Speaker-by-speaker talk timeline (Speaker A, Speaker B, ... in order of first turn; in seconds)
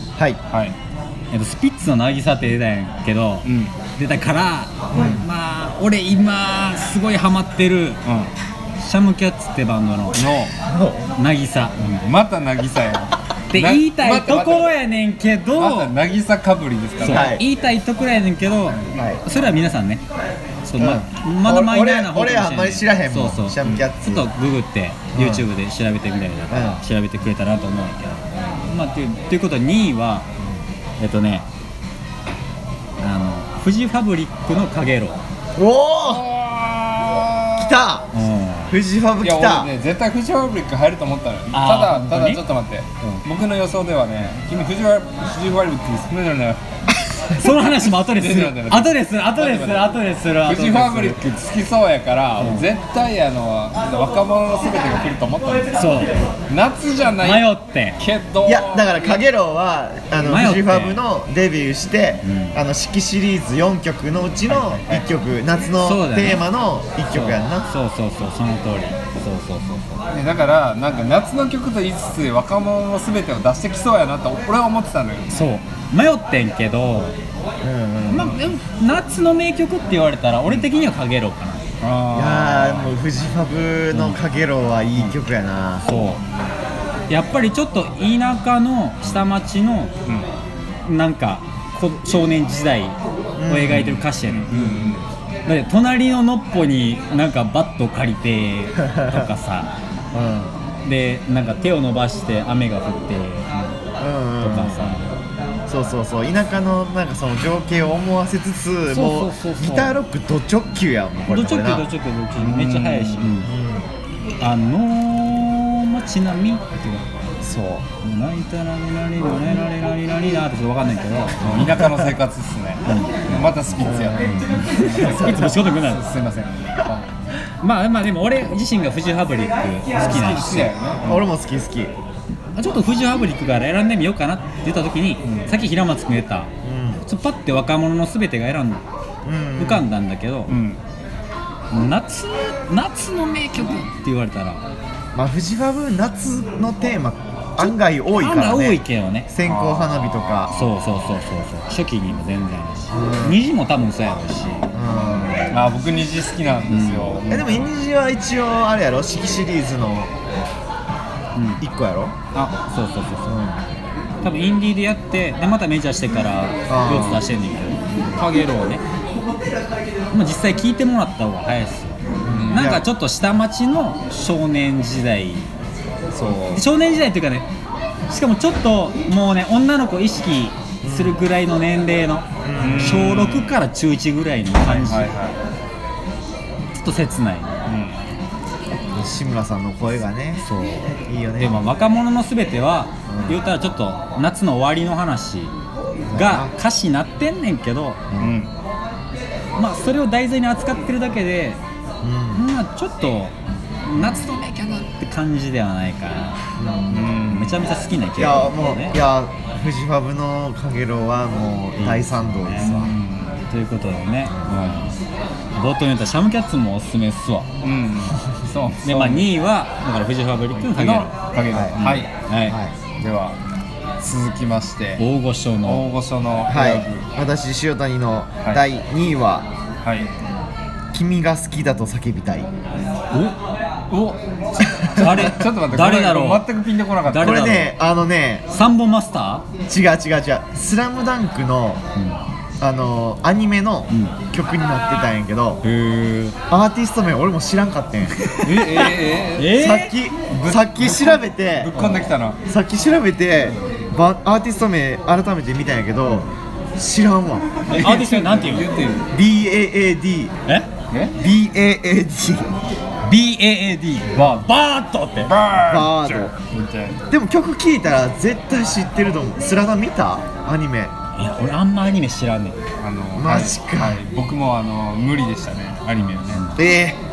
Speaker A: 0.5-0.8, 3.5-3.8, 8.1-8.3, 10.2-10.5, 12.0-14.7, 15.6-17.4, 36.0-37.8, 39.2-46.6, 47.6-55.9, 56.5-58.9, 70.1-75.3, 81.8-83.0, 93.7-95.0, 112.4-113.3, 121.4-127.1, 130.0-131.3, 135.2-135.6, 140.5-140.8, 149.4-150.5, 155.5-157.7, 172.3-172.7, 182.6-183.6, 184.6-185.4, 187.7-188.0, 198.2-198.5, 206.9-207.6, 212.6-213.4, 214.5-214.8, 217.6-219.3, 220.5-222.1, 223.0-223.4, 224.0-225.0, 225.7-227.0, 229.8-230.1, 233.9-237.4, 248.3-249.6, 250.3-252.4, 257.7-259.1, 264.2-264.4, 265.2-267.0, 272.8-276.5
Speaker B: 1.3-8.0, 8.8-10.3, 11.2-12.1, 13.5-15.9, 17.0-20.0, 20.6-30.3, 31.0-31.5, 33.0-35.2, 38.1-38.8, 41.5-42.4, 47.3-51.2, 52.4-52.7, 55.7-56.2, 57.2-58.0, 60.2-61.0, 62.2-62.6, 64.5-65.1, 65.8-66.4, 67.1-70.1, 75.3-77.2, 78.1-81.8, 83.9-84.2, 85.9-86.2, 87.1-89.9, 90.8-93.0, 93.5-99.8, 100.8-103.7, 104.4-105.1, 108.9-110.0, 111.3-113.5, 114.4-117.1, 118.0-121.8, 122.8-126.0, 127.6-130.7, 132.6-136.5, 137.1-138.8, 139.6-140.6, 141.7-144.6, 147.6-149.3, 150.5-154.8, 156.7-157.2, 161.4-161.6, 162.3-163.4, 164.2-168.8, 170.1-175.5, 176.5-177.5, 178.1-185.1, 186.7-187.6, 190.4-195.5, 196.1-198.0, 199.6-201.6, 202.3-203.3, 203.9-206.4, 207.2-209.0, 211.8-213.0, 213.5-215.0, 215.6-217.5, 218.8-221.1, 221.8-222.6, 225.0-225.9, 235.0-236.5, 237.1-237.7, 238.5-239.4, 242.0-242.2, 243.9-244.2, 245.6-246.4, 248.4-249.9, 251.7-252.1, 257.7-258.7, 263.0-265.3, 271.1-272.6, 276.0-276.6
Speaker C: 4.9-5.3, 10.7-11.0, 17.1-17.4, 18.9-19.2, 20.8-24.3, 25.1-25.5, 26.5-26.8, 35.6-36.2, 37.6-38.1, 38.7-39.7, 47.1-47.4, 58.4-67.7, 77.6-78.5, 82.1-85.9, 93.4-94.0, 98.8-99.3, 100.1-100.5, 104.0-105.0, 105.7-111.9, 113.4-113.9, 117.4-117.9, 121.8-122.1, 123.8-125.5, 130.0-130.3, 131.0-131.9, 136.6-137.0, 139.2-139.9, 145.1-150.6, 152.9-153.4, 154.7-155.5, 157.3-160.1, 161.6-162.2, 163.2-163.6, 166.7-167.2, 172.2-172.8, 176.1-176.7, 180.8-181.2, 182.4-183.1, 188.9-190.4, 191.1-191.7, 193.1-193.4, 196.1-196.5, 198.1-198.4, 202.0-202.4, 206.6-207.2, 208.2-212.9, 221.5-221.8, 222.5-222.8, 226.5-229.5, 230.9-232.5, 234.7-235.1, 237.2-238.4, 239.7-241.8, 242.6-245.6, 246.5-248.2, 249.4-251.7, 252.5-257.7, 259.1-260.4, 261.2-262.5, 265.7-266.3, 267.1-270.9, 273.2-274.0, 276.6-277.0